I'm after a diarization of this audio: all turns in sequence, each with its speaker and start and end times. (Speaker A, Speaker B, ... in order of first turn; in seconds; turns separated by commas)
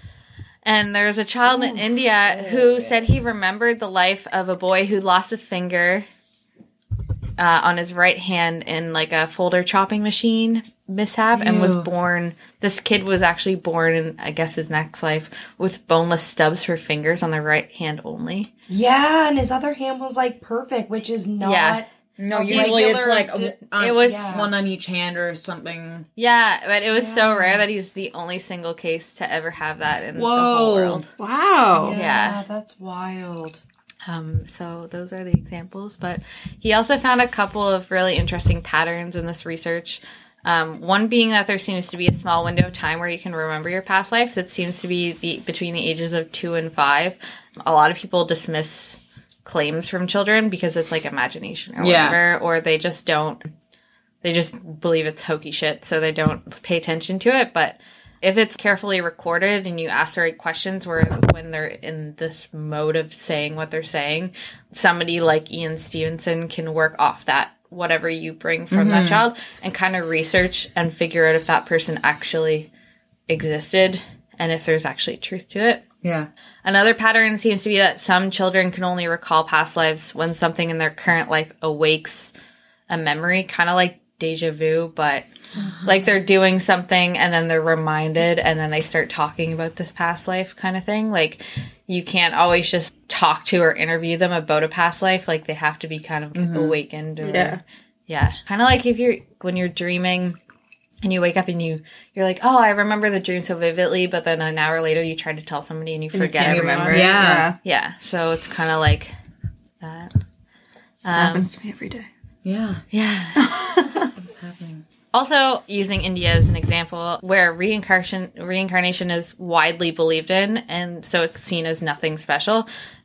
Speaker A: 0.7-6.1, Speaker B: 1.6-3.0, Speaker A: 7.4-18.5, Speaker B: 11.4-11.9, Speaker C: 18.7-21.9, Speaker A: 21.4-23.1, Speaker B: 22.2-26.1, Speaker C: 22.4-24.5, Speaker A: 23.7-24.5, Speaker A: 26.2-31.1, Speaker C: 26.9-27.6, Speaker B: 30.1-31.1, Speaker D: 31.2-32.0, Speaker C: 31.7-33.6, Speaker A: 31.9-32.4, Speaker A: 34.1-53.5, Speaker B: 51.8-52.2, Speaker A: 54.2-72.7, Speaker B: 68.7-69.2, Speaker A: 73.3-75.9, Speaker B: 76.0-76.3, Speaker A: 76.6-82.3, Speaker A: 82.9-85.3, Speaker A: 85.8-100.4, Speaker B: 96.3-96.8, Speaker D: 97.2-97.6, Speaker A: 101.0-109.1, Speaker D: 106.1-107.6, Speaker B: 106.4-107.5, Speaker A: 109.8-110.1, Speaker A: 111.0-111.5, Speaker D: 111.2-112.1, Speaker B: 112.4-112.8, Speaker A: 112.9-113.5, Speaker D: 113.4-114.1, Speaker B: 114.2-114.8, Speaker A: 115.1-122.7